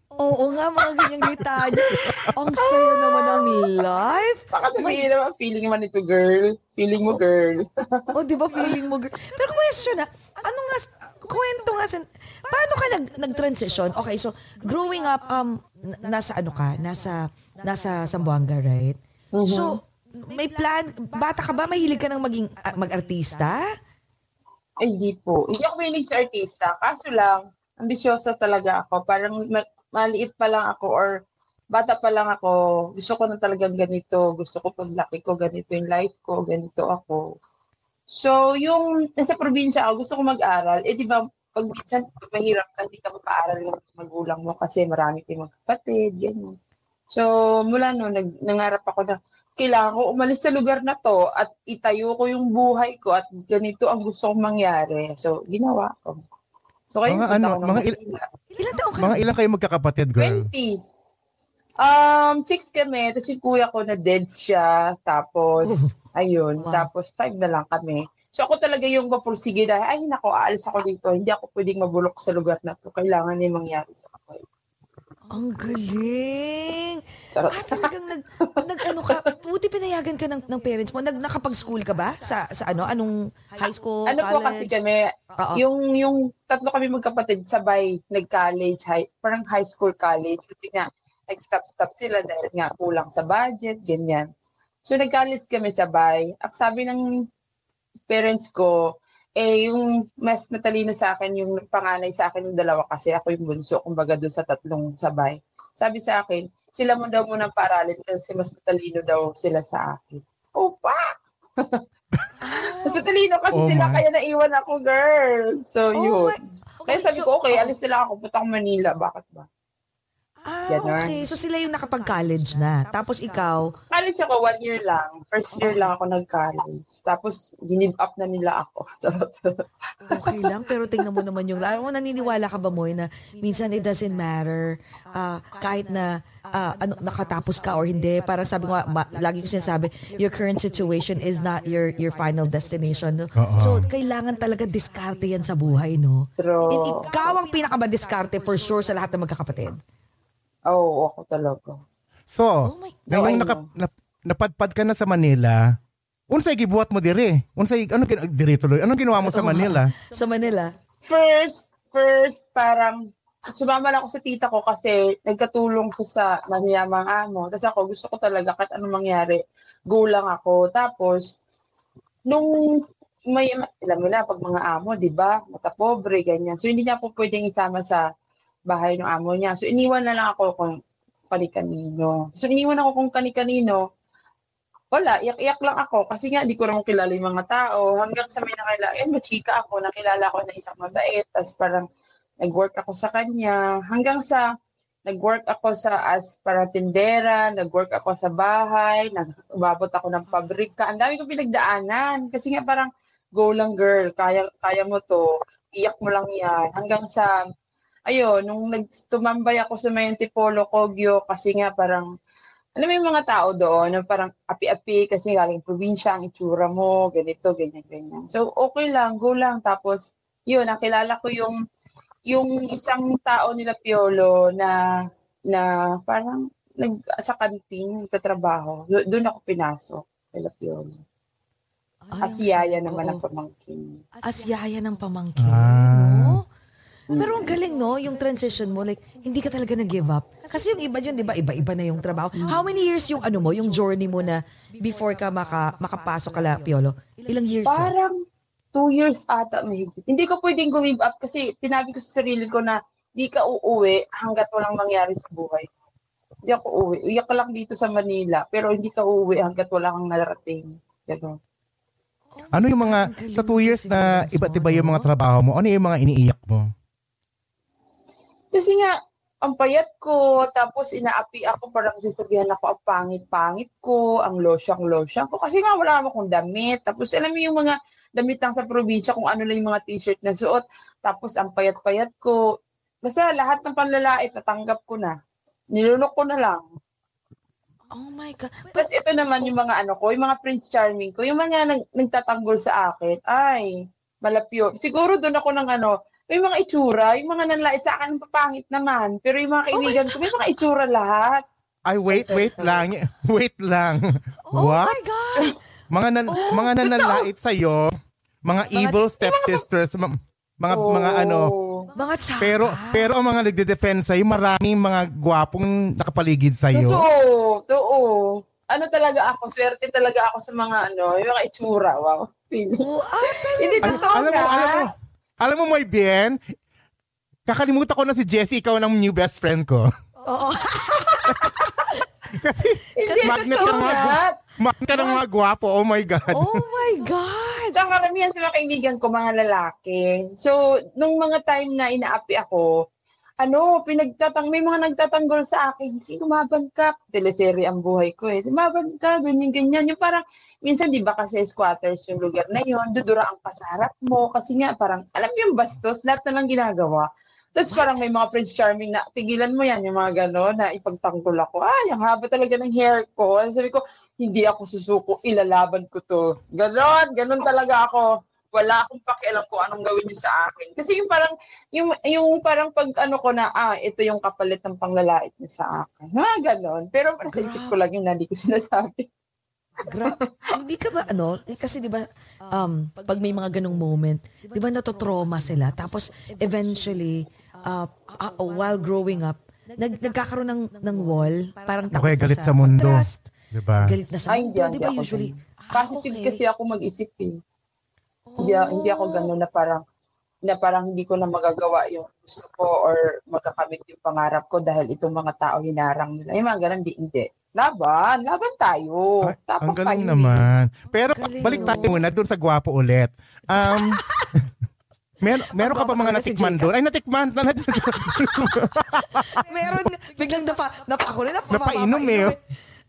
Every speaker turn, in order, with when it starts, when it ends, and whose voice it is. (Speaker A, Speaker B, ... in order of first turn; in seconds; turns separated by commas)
Speaker A: 0.1-5.1, Speaker B: 2.6-3.7, Speaker B: 4.5-8.7, Speaker A: 8.1-23.6, Speaker B: 19.3-19.8, Speaker B: 24.8-31.1, Speaker B: 31.7-37.2, Speaker B: 38.1-46.6, Speaker B: 47.1-56.2, Speaker B: 56.9-58.2, Speaker C: 57.1-58.0, Speaker A: 58.5-59.2, Speaker C: 59.0-60.5, Speaker B: 60.2-60.7, Speaker B: 61.8-74.4, Speaker A: 65.6-65.9, Speaker A: 66.6-66.9, Speaker A: 75.3-84.7, Speaker B: 77.3-77.9, Speaker B: 78.9-79.2, Speaker B: 84.1-94.3, Speaker A: 85.4-85.6, Speaker B: 94.8-97.0, Speaker B: 98.1-98.8, Speaker B: 99.4-111.8, Speaker A: 112.4-113.0, Speaker B: 112.8-116.4, Speaker C: 113.5-114.0, Speaker A: 115.9-117.7, Speaker B: 116.9-119.5, Speaker A: 120.5-123.7, Speaker B: 120.7-121.2, Speaker B: 123.9-130.5, Speaker A: 125.5-125.9, Speaker A: 130.1-149.8, Speaker C: 143.3-143.8, Speaker B: 146.4-147.0, Speaker B: 150.7-151.8, Speaker C: 152.3-155.6, Speaker A: 152.6-153.0, Speaker B: 153.1-153.6, Speaker C: 156.3-159.9, Speaker A: 159.2-160.7, Speaker B: 161.0-163.0, Speaker B: 163.5-171.3, Speaker B: 172.3-172.7, Speaker B: 173.3-178.0, Speaker B: 178.7-180.8, Speaker B: 181.3-183.8, Speaker B: 184.9-191.8, Speaker B: 192.4-194.4, Speaker B: 195.1-207.3, Speaker B: 208.1-212.1, Speaker B: 212.8-221.6, Speaker B: 222.3-224.8, Speaker B: 225.5-230.9, Speaker A: 232.1-233.2, Speaker B: 232.2-234.0, Speaker A: 234.2-236.4, Speaker C: 235.4-236.4, Speaker B: 237.1-237.5, Speaker A: 237.1-247.9, Speaker B: 247.6-248.2, Speaker B: 248.7-255.7, Speaker B: 256.4-261.4, Speaker A: 262.4-265.1, Speaker C: 262.5-266.7, Speaker B: 268.5-282.4, Speaker B: 283.0-285.1, Speaker B: 285.7-286.6, Speaker A: 287.9-288.9, Speaker B: 288.8-293.7, Speaker B: 294.2-301.4, Speaker A: 299.7-300.2, Speaker C: 301.9-305.0, Speaker B: 302.1-302.9, Speaker A: 304.5-305.6, Speaker C: 305.9-311.5, Speaker A: 306.3-306.7, Speaker B: 306.6-307.2, Speaker B: 308.7-309.6, Speaker B: 310.7-311.9, Speaker A: 311.9-313.1, Speaker C: 312.4-317.1, Speaker B: 316.7-324.9, Speaker A: 322.8-324.1, Speaker C: 323.9-326.4, Speaker C: 327.5-329.9, Speaker A: 330.2-332.0, Speaker B: 331.3-331.7, Speaker C: 332.4-336.6, Speaker B: 332.9-334.4, Speaker A: 333.0-334.1, Speaker B: 334.9-335.2, Speaker A: 336.3-337.8, Speaker B: 337.7-342.7, Speaker B: 343.4-379.1, Speaker A: 357.7-358.0, Speaker A: 377.3-377.7, Speaker A: 379.8-396.4, Speaker B: 380.0-380.5, Speaker C: 391.9-393.9, Speaker B: 394.3-397.4, Speaker A: 398.3-399.3, Speaker B: 398.4-399.8, Speaker B: 400.4-410.4, Speaker C: 409.2-414.0, Speaker A: 411.1-412.0, Speaker A: 413.5-414.4, Speaker C: 415.2-419.3, Speaker A: 415.4-416.8, Speaker A: 417.8-422.4, Speaker C: 421.5-422.4